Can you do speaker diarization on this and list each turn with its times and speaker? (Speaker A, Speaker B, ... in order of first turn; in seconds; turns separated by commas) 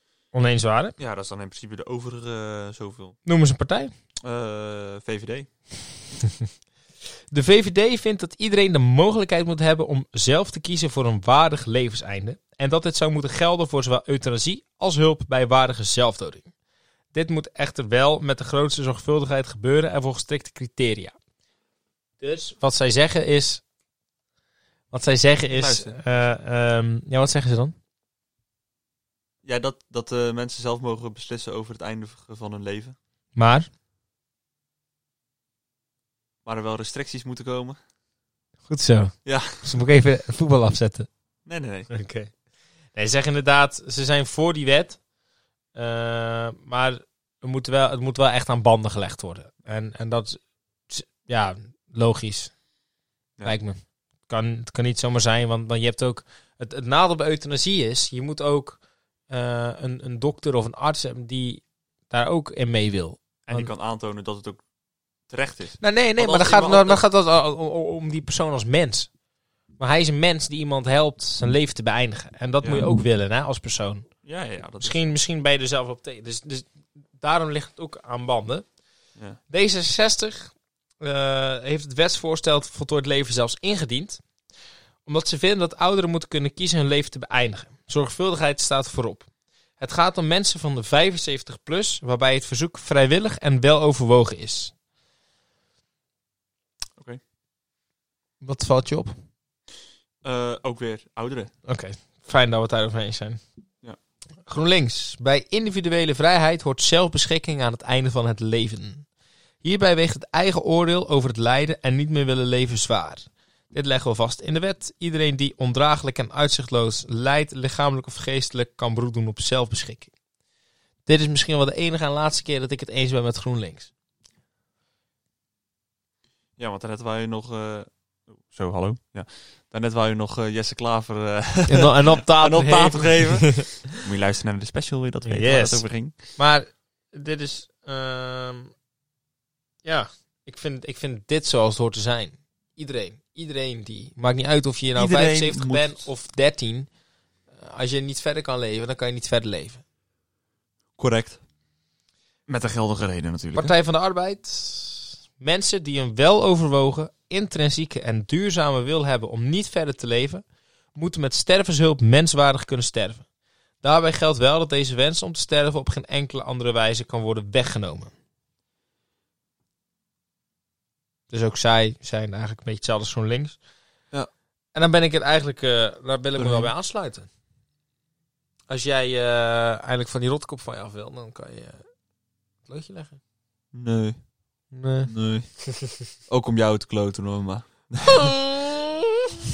Speaker A: 0.3-1.0, Speaker B: 1.0-3.2, Speaker A: 3.2-3.9, Speaker B: 4.2-5.5, Speaker A: 7.3-16.5, Speaker A: 17.1-21.1, Speaker A: 22.2-23.6, Speaker A: 24.9-27.8, Speaker B: 25.5-26.0, Speaker B: 29.4-33.0, Speaker A: 33.4-33.7, Speaker B: 36.5-37.8, Speaker A: 38.7-41.1, Speaker B: 39.2-39.7, Speaker B: 41.5-41.9, Speaker A: 41.9-42.3, Speaker A: 43.0-45.0, Speaker A: 45.8-52.5, Speaker A: 53.4-63.7, Speaker B: 63.5-64.6, Speaker B: 65.3-67.0, Speaker A: 65.8-69.1, Speaker A: 69.8-74.1, Speaker B: 72.6-72.9, Speaker B: 74.2-75.0, Speaker A: 74.8-78.7, Speaker A: 79.5-84.2, Speaker A: 85.1-89.3, Speaker A: 89.8-94.7, Speaker A: 98.4-99.1, Speaker B: 100.2-101.5, Speaker A: 101.7-103.4, Speaker A: 104.5-109.1, Speaker A: 109.6-120.1, Speaker A: 121.1-123.9, Speaker B: 126.6-136.2, Speaker A: 131.7-133.8, Speaker A: 135.2-138.7, Speaker A: 139.8-146.9, Speaker B: 145.0-146.1, Speaker A: 147.6-149.8, Speaker B: 151.0-151.4, Speaker B: 152.5-153.7, Speaker A: 153.5-160.4, Speaker A: 160.9-163.2, Speaker A: 163.8-168.1, Speaker A: 171.3-173.6, Speaker A: 174.8-177.3, Speaker B: 176.4-176.7, Speaker A: 178.7-181.9, Speaker A: 182.7-183.2, Speaker B: 183.7-184.2, Speaker A: 184.7-185.1, Speaker B: 185.1-185.5, Speaker A: 185.7-186.0, Speaker B: 186.3-188.4, Speaker A: 188.1-188.8